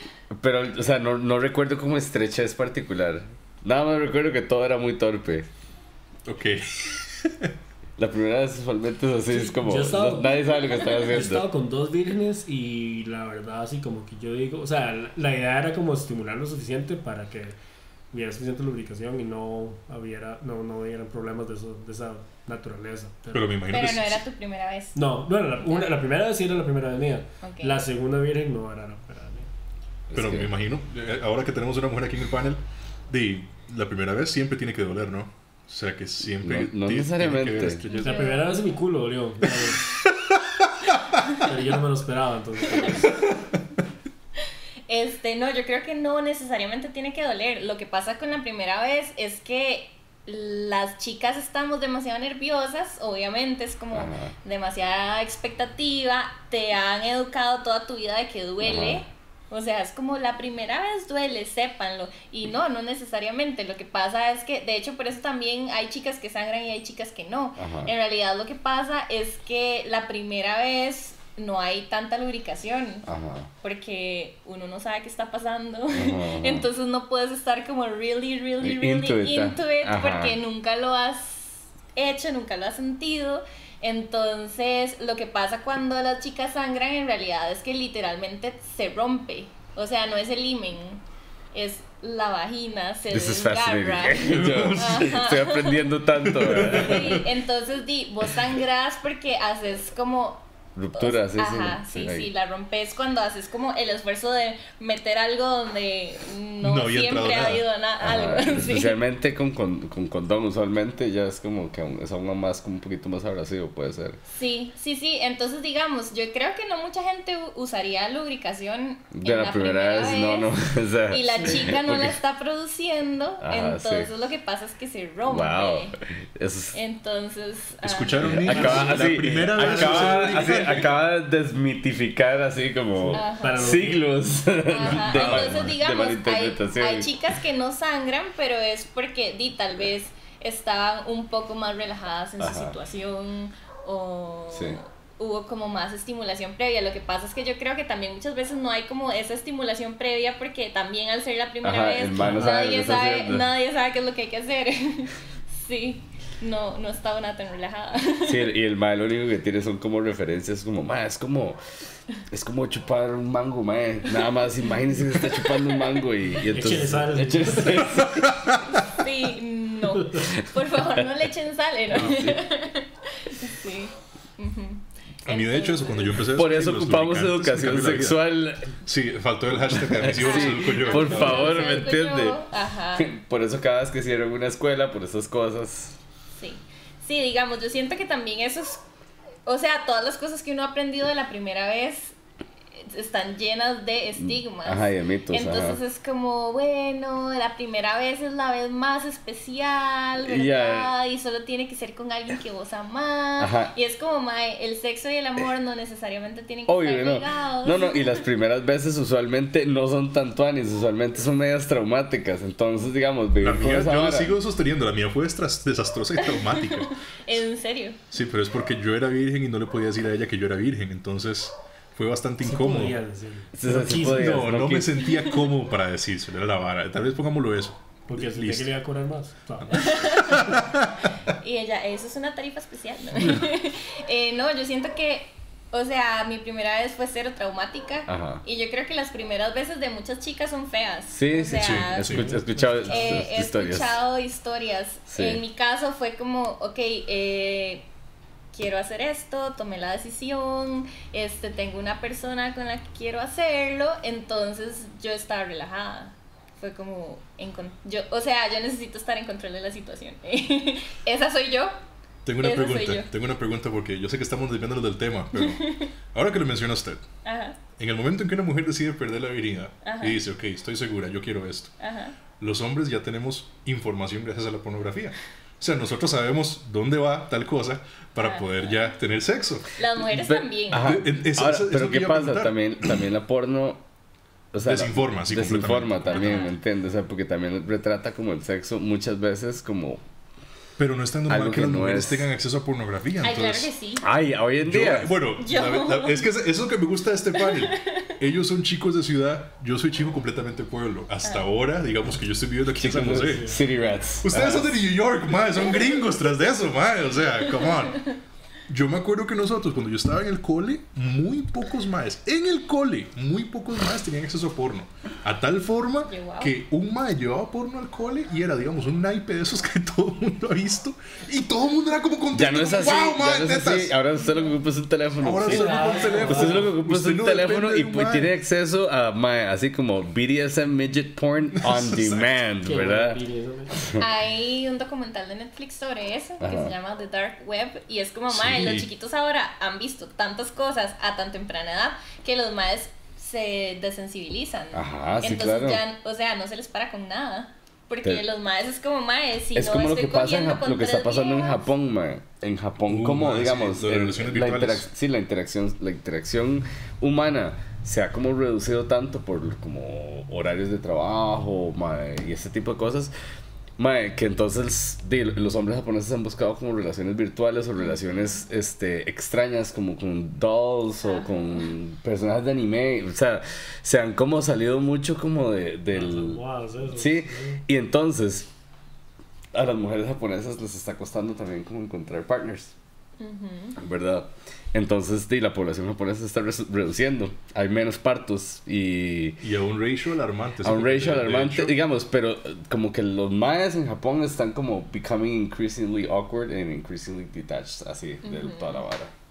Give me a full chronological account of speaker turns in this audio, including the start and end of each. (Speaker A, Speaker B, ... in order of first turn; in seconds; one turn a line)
Speaker A: 0.3-5.5
Speaker B: 6.3-7.5
Speaker A: 8.0-11.5
Speaker C: 9.3-17.6
Speaker C: 18.1-23.5
Speaker B: 23.3-24.2
Speaker D: 23.7-25.0
Speaker C: 24.9-29.5
Speaker D: 27.4-27.8
Speaker A: 30.1-30.5
Speaker B: 30.1-38.3
Speaker A: 36.4-37.8
Speaker D: 37.9-38.6
Speaker C: 38.0-39.8
Speaker C: 41.4-43.2
Speaker D: 44.9-73.1
Speaker A: 53.9-54.3
Speaker A: 58.6-59.0
Speaker A: 67.6-67.9
Speaker A: 73.1-73.5
Speaker D: 73.6-91.0
Speaker A: 75.9-76.7
Speaker A: 78.6-80.4
Speaker D: 91.5-109.0
Speaker A: 93.1-97.2
Speaker B: 94.2-95.2
Speaker B: 96.2-97.2
Speaker A: 100.8-102.3
Speaker B: 106.6-107.6
Speaker A: 108.0-114.2
Speaker D: 114.3-120.5
Speaker A: 119.1-122.2
Speaker D: 121.1-125.9
Speaker A: 123.4-124.1
Speaker A: 125.3-126.8
Speaker D: 126.7-128.8
Speaker B: 127.8-131.0
Speaker A: 128.2-137.1
Speaker C: 128.5-130.8
Speaker C: 133.0-134.1
Speaker D: 133.1-133.8
Speaker D: 134.7-158.5
Speaker B: 134.8-135.7
Speaker A: 142.4-142.8
Speaker A: 144.5-144.8
Speaker A: 151.6-153.5
Speaker C: 152.2-152.5
Speaker A: 158.3-161.6
Speaker A: 162.3-168.5
Speaker D: 165.4-165.8
Speaker C: 166.4-168.0
Speaker B: 168.0-168.5
Speaker D: 168.9-176.2
Speaker A: 171.9-172.4
Speaker B: 175.3-178.2
Speaker A: 176.3-178.7
Speaker B: 178.8-181.7
Speaker A: 179.7-182.4
Speaker D: 180.2-183.1
Speaker A: 182.9-186.0
Speaker D: 186.4-188.8
Speaker D: 189.5-192.2
Speaker D: 192.8-208.2
Speaker A: 194.2-195.8
Speaker A: 200.2-200.9
Speaker A: 203.4-203.7
Speaker A: 206.7-214.4
Speaker B: 213.4-216.9
Speaker D: 216.5-218.0
Speaker B: 218.1-223.0
Speaker C: 222.4-224.5
Speaker A: 223.6-225.1
Speaker B: 223.9-228.7
Speaker C: 228.1-229.9
Speaker D: 229.7-230.5
Speaker B: 229.8-231.1
Speaker D: 231.4-247.9
Speaker A: 238.1-238.4
Speaker A: 241.1-244.0
Speaker B: 241.6-242.4
Speaker C: 242.1-242.9
Speaker A: 245.1-245.4
Speaker D: 248.5-261.8
Speaker B: 262.2-267.0
Speaker D: 262.4-263.1
Speaker D: 265.4-265.9
Speaker D: 267.2-267.6
Speaker B: 267.8-271.8
Speaker D: 269.8-270.2
Speaker D: 271.8-272.2
Speaker B: 272.4-279.7
Speaker D: 278.2-278.7
Speaker D: 279.8-281.0
Speaker A: 280.0-283.8
Speaker B: 280.7-282.7
Speaker A: 284.5-290.0
Speaker B: 284.6-286.4
Speaker D: 286.1-286.6
Speaker B: 290.8-293.7
Speaker A: 291.3-292.3
Speaker D: 293.2-294.0
Speaker A: 294.0-295.1
Speaker B: 294.6-303.6
Speaker D: 295.4-296.3
Speaker D: 297.4-298.2
Speaker A: 302.8-304.8
Speaker C: 303.1-303.6
Speaker B: 304.2-308.1
Speaker D: 307.6-308.1
Speaker B: 308.7-324.0
Speaker D: 316.1-316.5
Speaker A: 322.3-333.2
Speaker B: 325.2-328.3
Speaker C: 325.4-326.7
Speaker B: 331.6-332.4
Speaker C: 332.6-333.8
Speaker A: 333.8-334.0
Speaker D: 334.0-351.7
Speaker A: 336.4-336.7
Speaker B: 338.3-338.9
Speaker A: 344.7-345.8
Speaker A: 349.5-363.1
Speaker B: 352.9-354.9
Speaker A: 363.8-376.4
Speaker D: 367.8-368.4
Speaker D: 371.0-371.4
Speaker C: 375.9-377.6
Speaker A: 376.9-378.5
Speaker A: 379.5-382.7
Speaker D: 383.2-383.8
Speaker A: 383.8-389.4
Speaker B: 389.4-391.7
Speaker A: 390.6-399.1
Speaker D: 398.2-398.8